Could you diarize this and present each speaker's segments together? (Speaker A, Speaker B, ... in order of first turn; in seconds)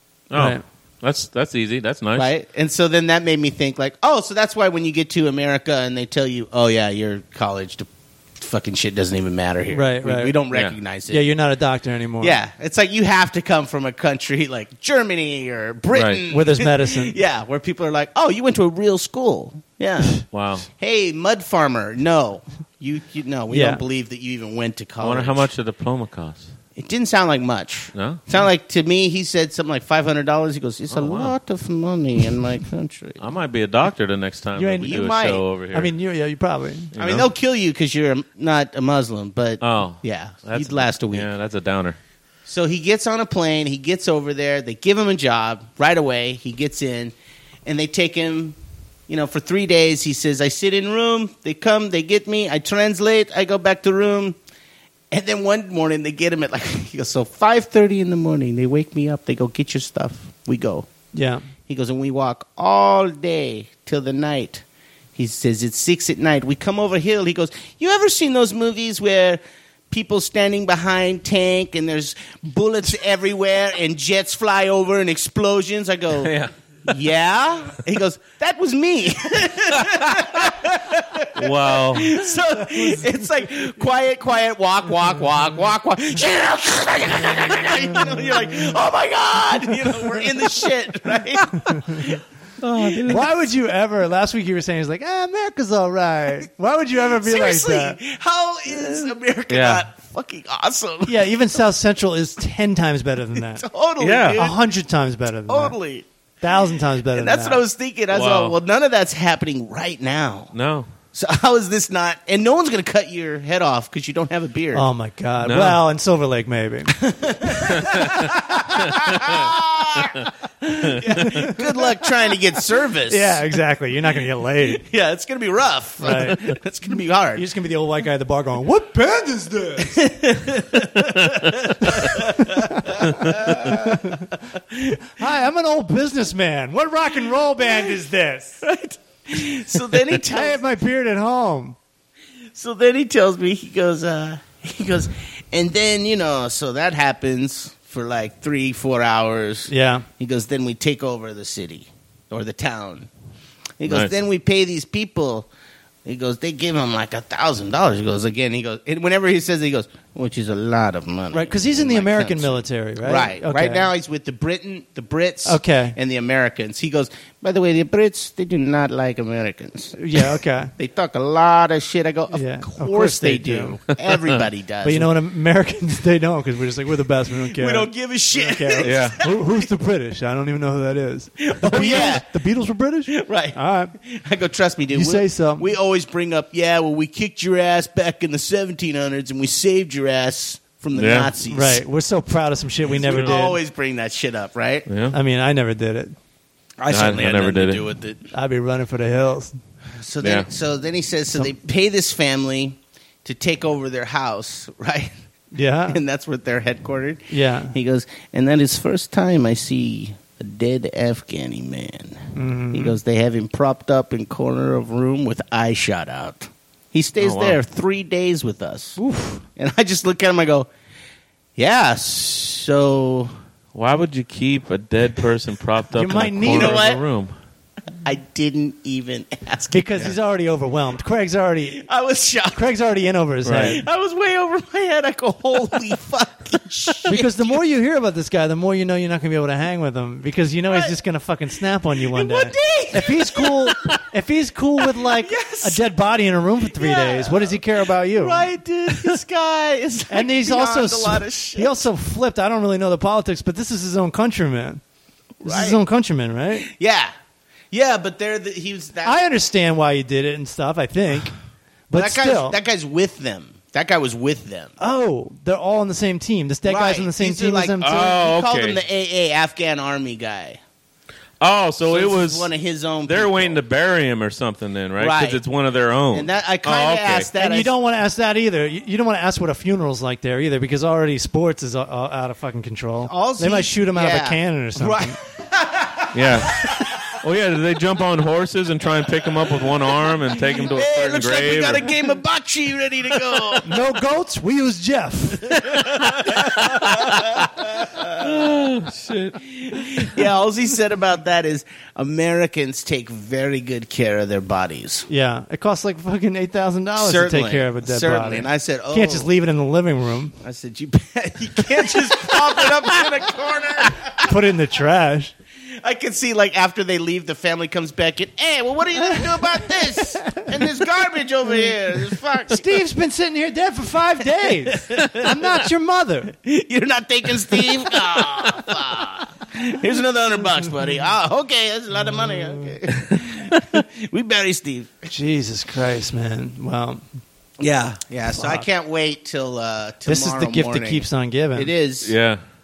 Speaker A: 0.3-2.3, 15.9-16.2, 20.3-20.7, 25.0-26.5, 27.9-28.2, 30.9-31.3, 33.2-35.9, 36.9-37.3, 39.6-42.0, 76.2-76.5, 79.9-80.2, 81.3-82.2, 92.6-93.3, 99.5-99.8, 104.0-104.5, 108.1-108.5, 110.5-110.9, 115.4-115.8, 117.8-118.3, 118.9-119.5, 153.8-154.1, 178.8-179.2, 190.9-191.3, 194.9-195.2, 196.9-197.8, 200.2-200.5, 217.2-217.6, 223.7-227.3, 233.4-233.8, 267.8-268.8, 271.4-272.5, 273.1-277.3, 286.1-291.9, 296.1-297.4, 298.1-300.1, 342.0-342.4
Speaker B: 0.3-0.6, 9.7-10.3, 11.1-12.4, 16.3-17.1, 23.5-23.8, 34.5-35.1, 35.7-36.9, 61.1-61.4, 93.0-98.0, 101.0-103.6, 104.3-105.8, 106.4-107.6, 114.7-117.0, 120.9-121.6, 123.1-124.8, 126.0-126.4, 127.3-130.0, 131.8-134.3, 135.2-138.6, 140.2-141.8, 149.7-150.1, 161.3-163.9, 165.4-165.9, 170.0-170.7, 172.3-173.8, 174.8-183.9, 184.9-185.7, 191.4-193.6, 195.1-196.1, 198.3-199.6, 205.5-206.0, 207.3-207.7, 212.3-213.0, 219.0-219.4, 225.9-226.9, 229.7-231.9, 232.5-233.8, 237.1-248.5, 250.1-254.8, 255.4-256.7, 259.0-261.3, 261.9-262.6, 264.8-268.1, 277.4-285.2, 293.6-295.6, 305.1-310.3, 314.2-315.3, 322.5-326.3, 332.1-332.7, 335.1-337.0, 338.3-338.6, 340.1-341.7
Speaker C: 2.1-11.3, 12.2-25.5, 26.8-33.2, 34.8-35.5, 37.0-41.3, 42.5-47.1, 47.6-48.6, 49.1-54.4, 55.1-60.9, 61.7-64.6, 65.2-76.3, 76.9-93.2, 97.1-101.4, 103.4-104.6, 105.5-106.0, 107.1-110.5, 111.1-114.8, 117.0-123.4, 124.7-127.5, 129.8-134.2, 137.6-137.9, 138.6-140.6, 142.5-153.1, 153.8-155.5, 156.0-175.1, 177.4-179.7, 181.4-182.3, 183.1-191.8, 192.9-194.8, 196.8-198.2, 199.9-205.2, 205.9-220.7, 221.6-223.3, 226.4-227.0, 228.0-230.1, 231.7-232.7, 233.6-237.6, 240.7-241.0, 241.9-243.9, 244.9-245.8, 246.7-251.8, 255.4-255.8, 256.6-257.1, 257.7-259.2, 261.9-264.7, 266.6-270.6, 271.9-273.6, 275.0-275.4, 276.1-277.7, 283.0-286.9, 290.5-293.7, 295.5-298.5, 299.4-305.1, 306.9-309.3, 310.4-314.4, 315.8-322.8, 324.6-325.4, 326.3-334.9, 337.6-342.1